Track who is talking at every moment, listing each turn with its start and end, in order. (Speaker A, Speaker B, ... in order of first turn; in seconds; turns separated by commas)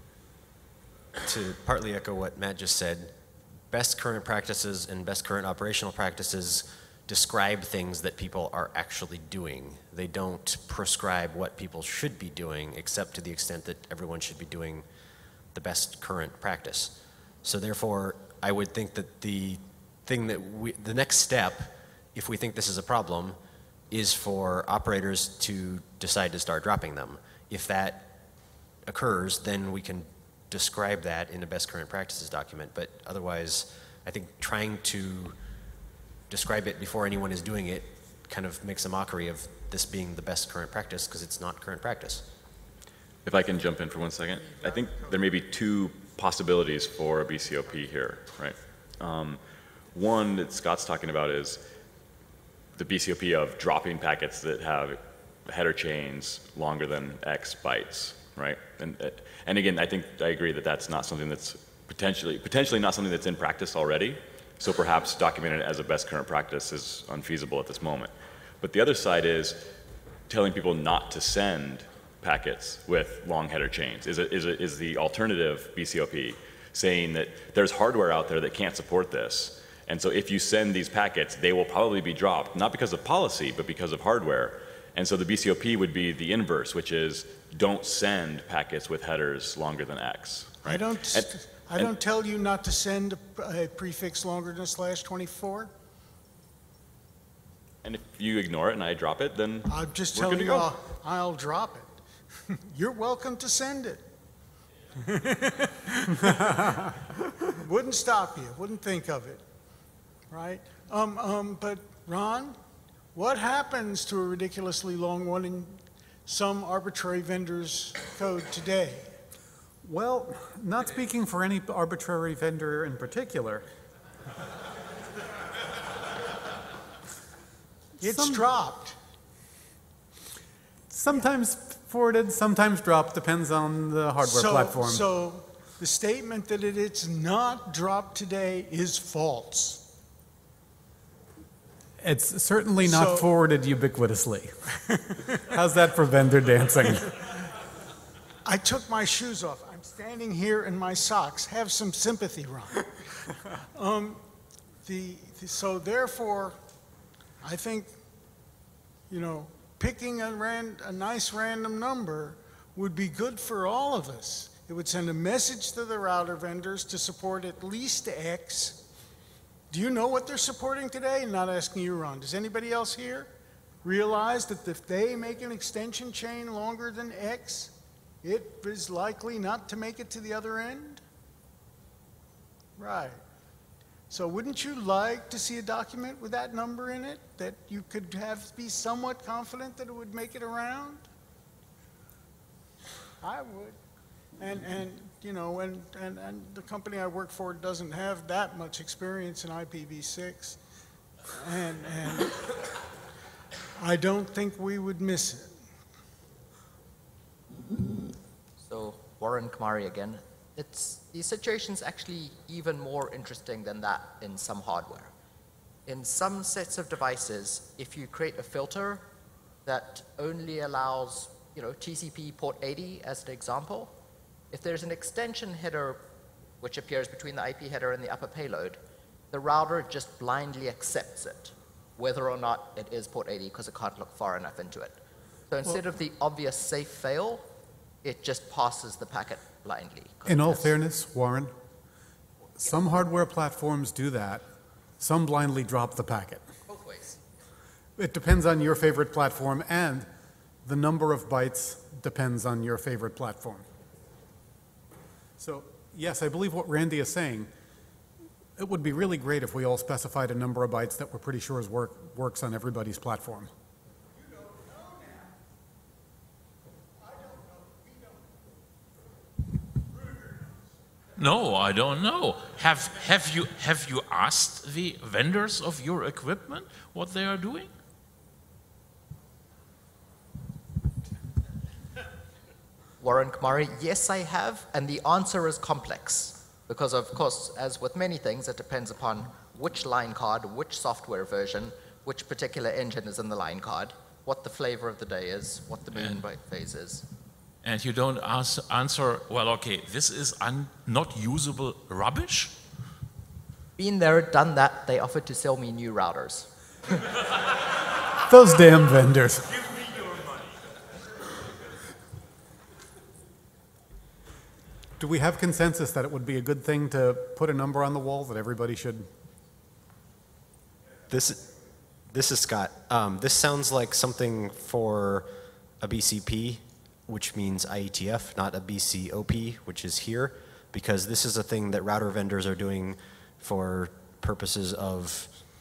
Speaker A: 1.2-3.1, Speaker A: 3.7-14.9, Speaker A: 15.5-23.4, Speaker A: 23.9-28.1, Speaker A: 28.9-35.4, Speaker A: 36.3-42.2, Speaker B: 43.2-49.4, Speaker B: 49.9-51.6, Speaker B: 52.8-69.7, Speaker B: 70.3-91.9, Speaker C: 90.6-95.7, Speaker B: 97.8-100.7, Speaker C: 99.7-104.1, Speaker C: 105.0-109.4, Speaker C: 110.3-112.6, Speaker C: 113.1-119.2, Speaker D: 119.8-123.7, Speaker D: 128.0-128.5, Speaker C: 128.0-128.9, Speaker D: 130.9-135.1, Speaker C: 134.2-139.9, Speaker D: 142.0-144.5, Speaker C: 142.8-143.3, Speaker C: 144.9-145.2, Speaker D: 145.3-147.2, Speaker C: 148.4-152.9, Speaker C: 153.6-154.2, Speaker C: 154.8-156.6, Speaker C: 157.4-158.0, Speaker C: 159.1-168.8, Speaker C: 169.7-173.3, Speaker C: 173.8-181.0, Speaker C: 182.8-183.2, Speaker C: 184.1-191.0, Speaker C: 193.2-193.8, Speaker C: 194.4-200.6, Speaker C: 201.3-202.7, Speaker C: 203.8-205.6, Speaker E: 208.6-215.1, Speaker E: 215.8-219.0, Speaker E: 219.6-223.9, Speaker E: 224.5-226.0, Speaker E: 226.6-228.8, Speaker E: 229.3-235.0, Speaker E: 235.5-237.4, Speaker E: 238.0-240.7, Speaker D: 240.3-241.5, Speaker D: 242.6-244.4, Speaker D: 245.0-246.4, Speaker E: 246.7-247.2, Speaker D: 248.0-250.1, Speaker D: 250.6-253.7, Speaker D: 255.4-257.5, Speaker D: 258.6-263.5, Speaker C: 264.9-265.2, Speaker F: 271.1-277.7, Speaker E: 283.0-297.0, Speaker F: 295.9-296.2, Speaker F: 297.6-302.6, Speaker E: 303.8-306.5, Speaker D: 308.3-309.5, Speaker D: 315.0-319.1, Speaker A: 321.1-321.5, Speaker A: 322.1-335.4